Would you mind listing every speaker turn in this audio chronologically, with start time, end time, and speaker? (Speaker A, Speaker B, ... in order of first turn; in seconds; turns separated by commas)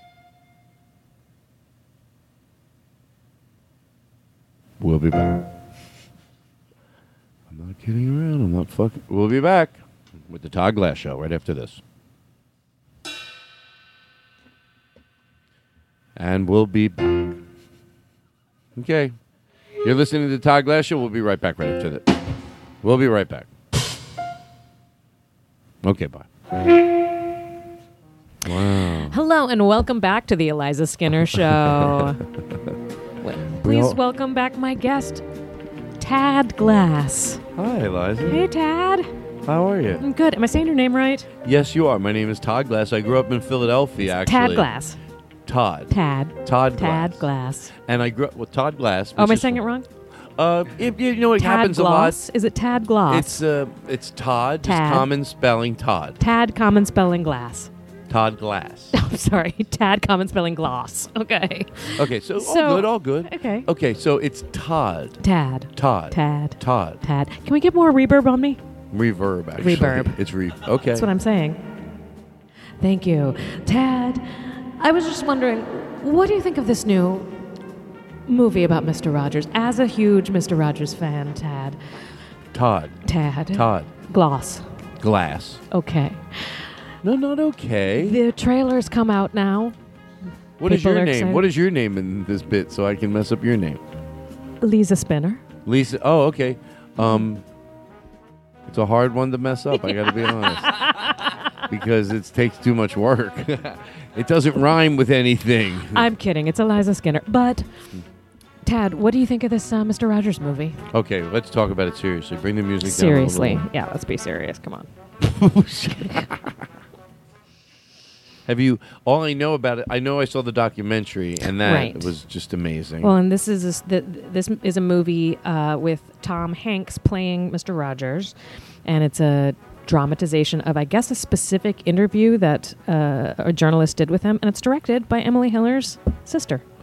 Speaker A: 4.8-5.4, Speaker A: 7.5-11.8, Speaker A: 16.1-17.4, Speaker A: 18.8-19.1, Speaker A: 19.8-22.1, Speaker A: 22.8-23.5, Speaker A: 25.8-26.3, Speaker A: 28.4-29.2, Speaker B: 29.1-32.2, Speaker B: 33.2-35.2, Speaker A: 33.6-34.0, Speaker B: 36.0-37.4, Speaker A: 37.5-38.4, Speaker B: 38.2-39.1, Speaker A: 39.5-40.0, Speaker B: 40.0-41.3, Speaker A: 41.4-44.7, Speaker B: 44.2-45.0, Speaker A: 45.5-47.2, Speaker B: 45.9-47.7, Speaker A: 47.8-49.6, Speaker B: 49.1-49.9, Speaker A: 50.4-52.2, Speaker B: 51.4-53.4, Speaker A: 53.1-56.2, Speaker B: 54.6-55.1, Speaker B: 56.2-57.7, Speaker A: 58.1-58.9, Speaker B: 58.9-63.7, Speaker A: 62.0-65.2, Speaker B: 65.2-68.6, Speaker A: 65.7-67.0, Speaker A: 68.9-71.1, Speaker B: 69.6-70.2, Speaker B: 70.9-71.6, Speaker B: 72.8-77.3, Speaker B: 78.3-81.8, Speaker A: 82.5-83.9, Speaker B: 83.0-84.6, Speaker A: 85.0-85.6, Speaker B: 85.7-86.7, Speaker A: 87.0-88.2, Speaker B: 88.0-89.7, Speaker A: 90.6-93.8, Speaker B: 90.6-91.5, Speaker B: 94.6-95.4, Speaker A: 95.6-97.4, Speaker A: 98.7-100.9, Speaker B: 100.0-101.4, Speaker A: 101.7-106.0, Speaker B: 105.9-107.7, Speaker B: 108.6-110.8, Speaker A: 110.9-113.6, Speaker B: 112.8-114.9, Speaker A: 115.2-116.5, Speaker A: 118.5-123.1, Speaker B: 121.6-122.1, Speaker B: 123.0-128.3, Speaker B: 128.8-136.6